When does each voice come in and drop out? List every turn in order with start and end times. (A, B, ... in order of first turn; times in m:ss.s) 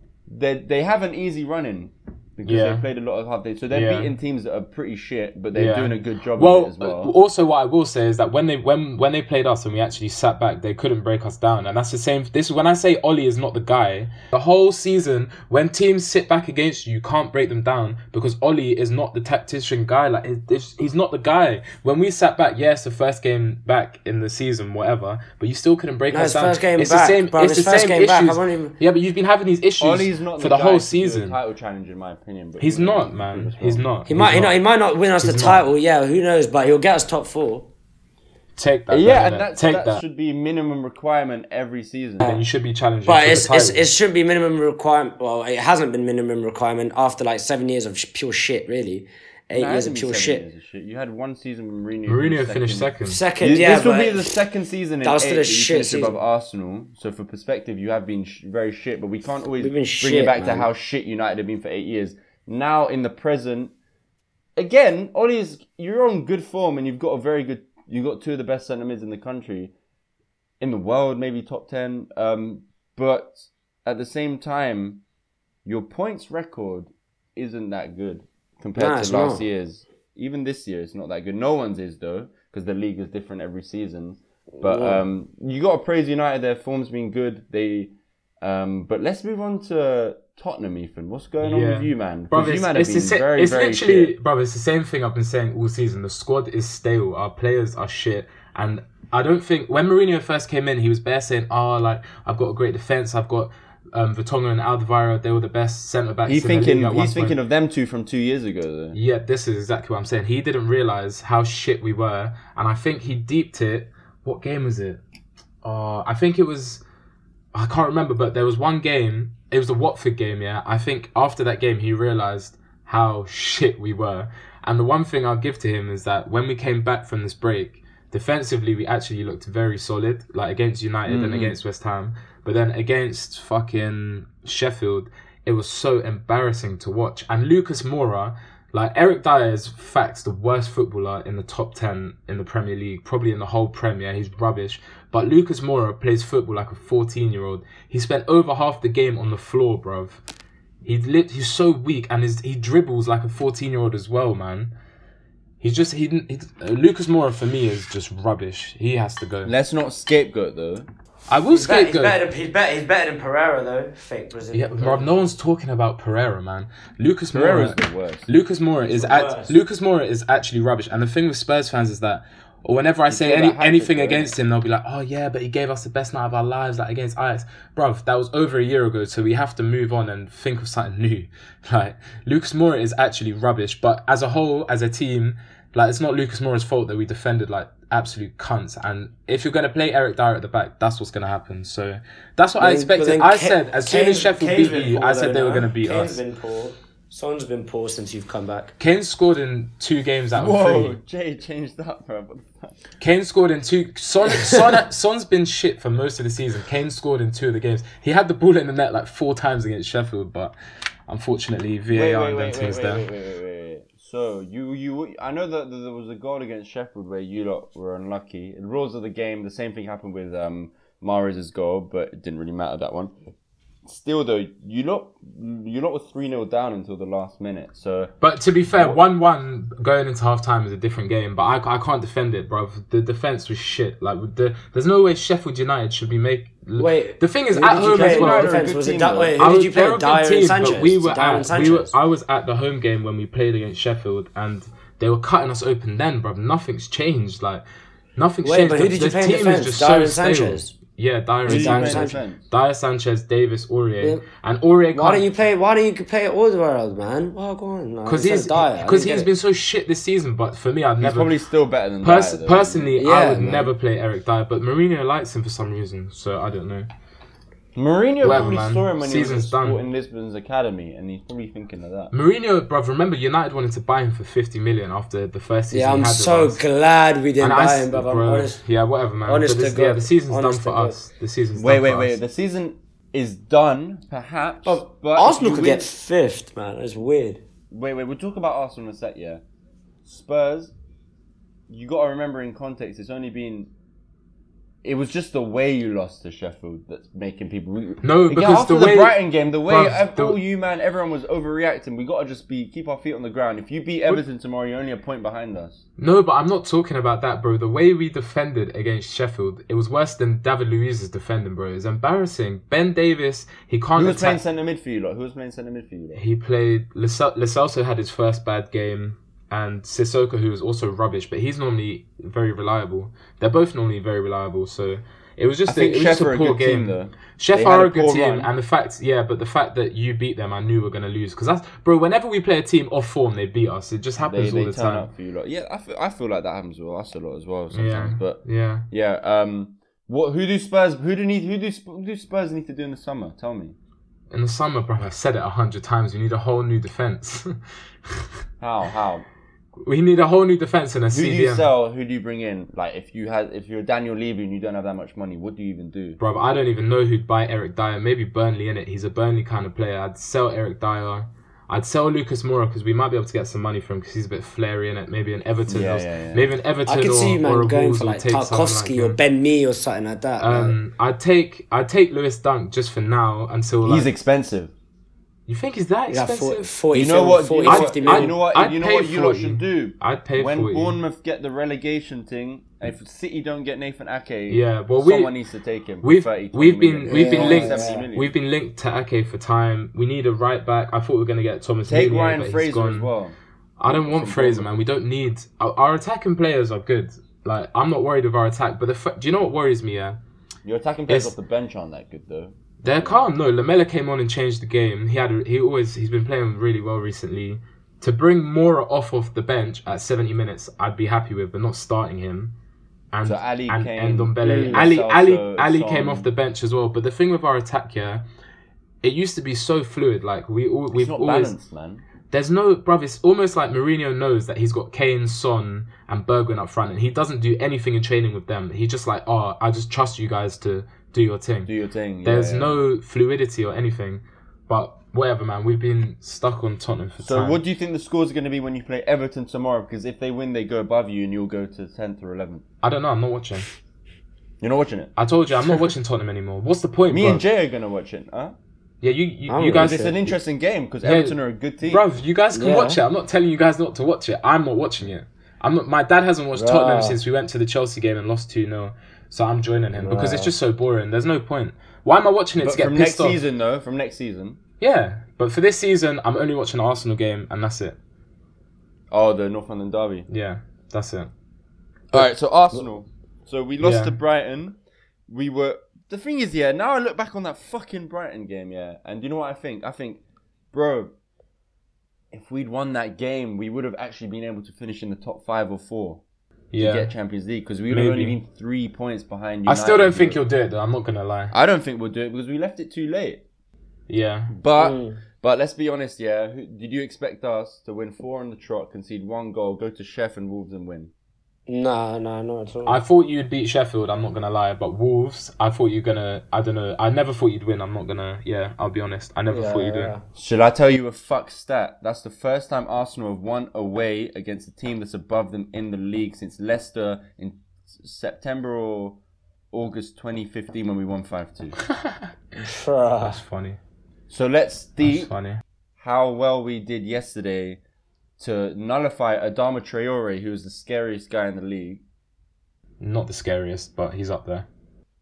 0:00.3-0:07.1 A
0:02.4-0:02.8 B
0:03.7-0:04.1 B
0:05.5-0:31.4 B
0:26.1-0:28.8 C
0:29.8-0:33.9 A
0:32.6-0:34.6 B
0:34.1-0:37.7 C
0:35.2-0:35.6 B
0:38.6-0:40.0 B
0:38.9-0:42.3 A
0:42.2-0:43.9 B
0:43.0-0:50.4 C
0:49.5-1:03.7 A
0:52.1-0:53.2 B
0:53.0-0:54.3 C
0:55.0-0:56.1 C
0:59.6-1:00.7 C
1:04.6-1:09.7 A
1:10.6-1:15.0 A
1:15.6-1:34.1 A
1:18.7-1:19.4 C
1:24.5-1:25.0 C
1:31.4-1:47.4 B
1:46.2-1:49.0 A
1:48.9-1:55.0 B
1:55.6-1:56.8 B
1:57.5-2:30.2 B
2:11.1-2:11.6 A
2:30.8-2:34.7 B
2:35.6-2:39.5 B
2:39.4-2:40.9 A
2:41.3-2:42.2 B
2:41.5-2:45.1 C
2:44.5-3:16.2 B
2:47.3-2:48.3 A
2:48.8-2:49.5 C
2:53.1-2:54.3 A
3:12.6-3:18.7 C
3:18.8-3:21.0 B
3:20.3-3:22.8 A
3:23.0-3:30.5 B
3:24.3-3:24.6 C
3:31.1-3:33.1 B
3:31.9-3:43.1 A
3:43.8-3:48.1 A
3:48.2-3:58.6 B
3:48.7-3:49.0 A
3:56.8-4:01.9 C
3:57.7-3:59.4 A
3:59.4-4:07.6 B
4:08.2-4:15.2 B
4:08.4-4:10.7 C
4:11.4-4:12.4 A
4:11.5-4:12.2 C
4:14.9-4:19.3 C
4:18.0-4:21.3 B
4:21.0-4:23.0 A
4:22.0-4:26.9 B
4:23.0-4:23.7 C
4:27.7-4:32.1 A
4:28.2-4:29.8 B
4:32.1-4:36.6 B
4:35.7-4:38.6 C
4:37.4-4:42.2 B
4:39.2-4:41.0 C
4:41.5-4:45.9 A
4:44.6-4:47.4 C
4:47.7-4:49.4 A
4:50.0-4:50.7 A
4:51.7-4:53.7 A
4:54.8-5:05.8 A
4:58.0-5:00.4 B
5:06.0-5:14.4 B
5:14.0-5:16.2 A
5:16.1-5:35.1 B
5:25.6-5:28.5 A
5:34.2-5:43.7 A
5:37.7-5:38.8 B
5:44.3-5:47.6 B
5:48.6-5:49.2 A
5:49.8-5:51.6 B
5:51.1-5:56.2 A
5:56.2-6:09.2 B
6:05.7-6:06.4 A
6:06.8-6:10.7 C
6:10.4-6:14.1 B
6:13.8-6:14.7 A
6:15.5-6:16.7 B
6:16.1-6:18.4 C
6:16.9-6:28.4 A
6:17.6-6:21.0 B
6:24.5-6:25.3 B
6:26.0-6:33.1 B
6:27.1-6:28.1 C
6:31.8-6:34.7 A
6:33.8-6:40.2 B
6:40.6-6:43.2 A
6:41.1-6:41.3 B
6:42.8-6:52.5 B
6:53.1-6:58.2 B
6:53.2-6:56.3 A
6:54.4-6:54.8 C
6:59.0-7:01.5 B
7:00.9-7:02.0 A
7:02.3-7:11.7 B
7:11.6-7:12.8 A
7:12.2-7:17.6 B
7:17.2-7:22.6 A
7:22.8-7:23.6 B
7:24.6-7:25.1 A
7:25.2-7:27.4 B
7:27.1-7:28.6 A
7:29.0-7:30.1 B
7:29.5-7:30.3 C
7:29.7-7:32.0 A
7:31.0-7:43.4 B
7:32.5-7:33.0 C
7:36.5-7:37.2 C
7:39.9-7:40.5 C
7:42.6-7:44.6 A
7:44.8-7:48.0 B
7:49.1-7:50.3 A
7:50.3-7:51.3 B
7:52.1-8:00.2 A
7:53.8-7:54.1 B
8:00.7-8:01.1 A
8:02.3-8:06.2 A
8:06.7-8:07.1 B
8:06.8-8:10.4 A
8:07.9-8:08.4 B
8:09.6-8:11.5 B
8:11.5-8:13.4 A
8:14.1-8:14.5 B
8:14.5-8:21.1 A
8:14.8-8:15.2 C
8:21.7-8:23.0 C
8:22.8-8:30.1 B
8:29.5-8:30.2 C
8:30.3-8:39.2 A
8:39.7-8:41.8 A
8:41.9-8:42.2 B
8:42.6-8:43.4 C
8:43.2-8:43.8 B
8:44.3-8:45.3 A
8:45.0-8:45.6 B
8:46.0-8:47.8 A
8:48.4-8:52.0 A
8:53.0-8:54.7 B